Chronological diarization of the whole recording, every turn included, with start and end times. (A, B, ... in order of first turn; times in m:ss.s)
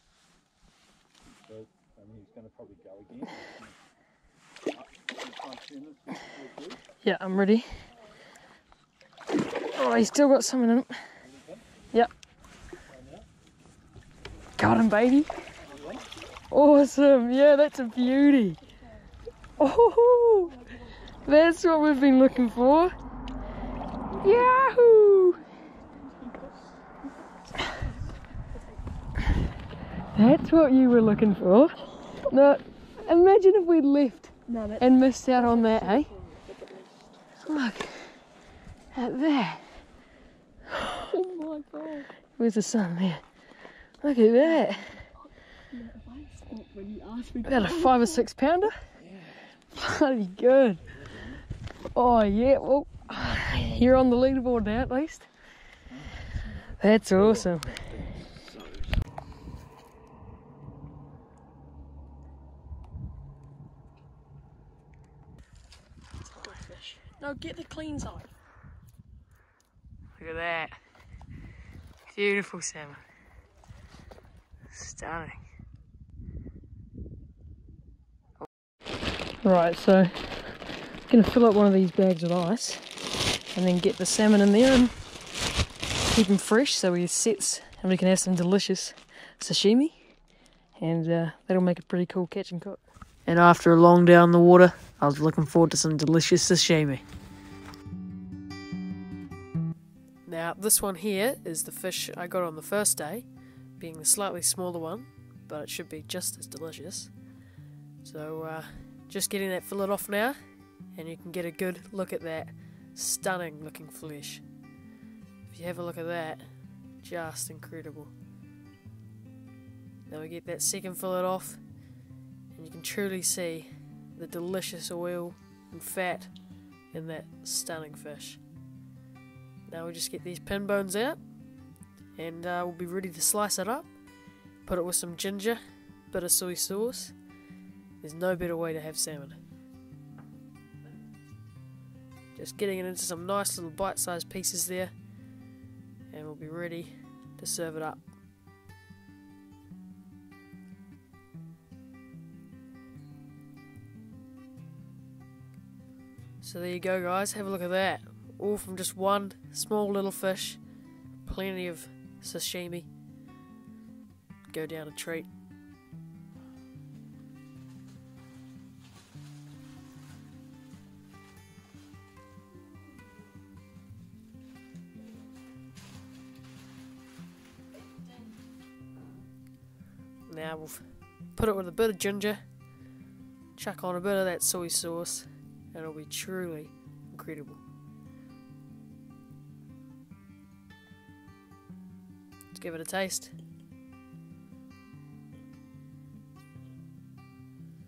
0:01.3-0:03.8 A
0:04.7-0:06.8 A
0:07.0-0:07.7 B
0:09.7-0:10.9 B
0:11.2-0:11.6 A
0:12.9-0:13.3 A
0:14.6-0:15.3 B
0:15.6-0:16.2 C
0:15.7-0:16.1 A
0:16.5-0:18.6 B
0:19.6-0:20.6 B
0:20.3-0:21.1 C
0:21.2-0:22.9 B
0:24.2-0:25.4 B
0:30.1-0:36.1 B
0:34.5-0:37.1 C
0:37.4-0:38.2 B
0:38.9-0:39.8 B
0:40.8-0:41.0 B
0:41.0-0:42.1 C
0:42.4-0:43.2 B
0:44.0-0:44.9 B
0:44.4-0:48.2 C
0:47.4-0:48.7 B
0:49.0-0:49.5 A
0:49.7-0:50.8 B
0:50.9-0:51.4 A
0:51.9-0:55.3 B
0:53.1-0:54.0 A
0:55.9-0:59.0 A
0:56.8-0:57.8 B
1:06.2-1:08.2 B
1:10.2-1:10.8 B
1:12.1-1:13.0 B
1:14.7-1:15.4 B
1:19.4-1:22.9 B
1:23.5-1:24.9 B
1:26.1-1:30.2 B
1:30.8-1:37.0 B
1:40.2-1:47.5 B
1:48.0-1:54.5 B
1:55.5-1:58.2 B
2:00.1-2:08.5 B
2:09.7-2:17.4 B
2:18.0-2:19.4 B
2:22.4-2:25.4 B
2:26.1-2:28.1 B
2:36.4-2:43.0 B
2:44.5-2:45.3 B
3:00.3-3:02.9 B
3:03.6-3:07.6 B
3:12.5-3:13.4 B